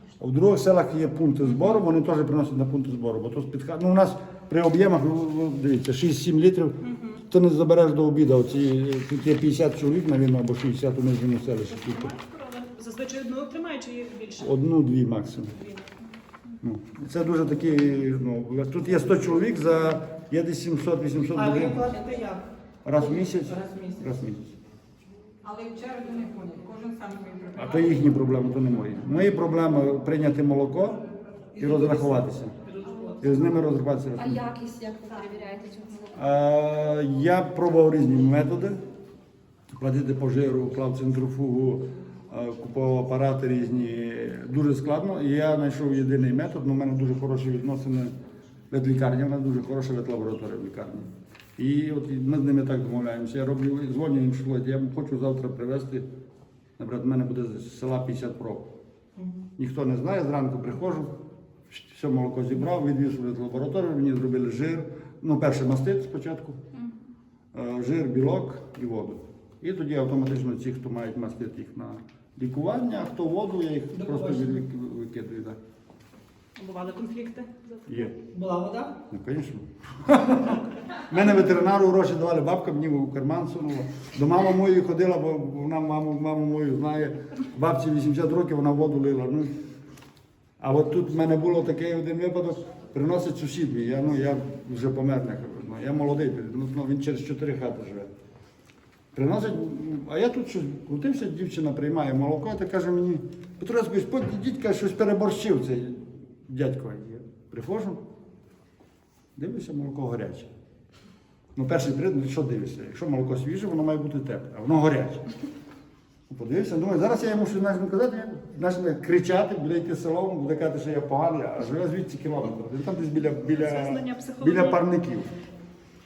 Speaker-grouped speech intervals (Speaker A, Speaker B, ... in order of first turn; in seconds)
Speaker A: 0.2-12.1, 14.4-15.5, 16.6-21.8, 22.9-24.5, 27.6-31.0, 31.6-32.5, 33.2-34.4, 36.1-38.8, 39.7-48.1, 48.7-56.1, 56.8-58.7, 59.6-61.1, 61.7-66.6, 67.5-75.6, 77.9-78.2, 79.1-89.5, 90.6-98.1, 99.1-108.0, 109.4-110.5, 111.5-115.3, 116.3-125.3
Speaker B: 12.0-14.5, 76.6-77.8, 123.5-124.8
Speaker C: 21.4-22.5, 23.0-24.0, 25.4-27.9, 31.6-32.2, 74.0-74.5, 78.3-79.0
Speaker D: 34.2-36.2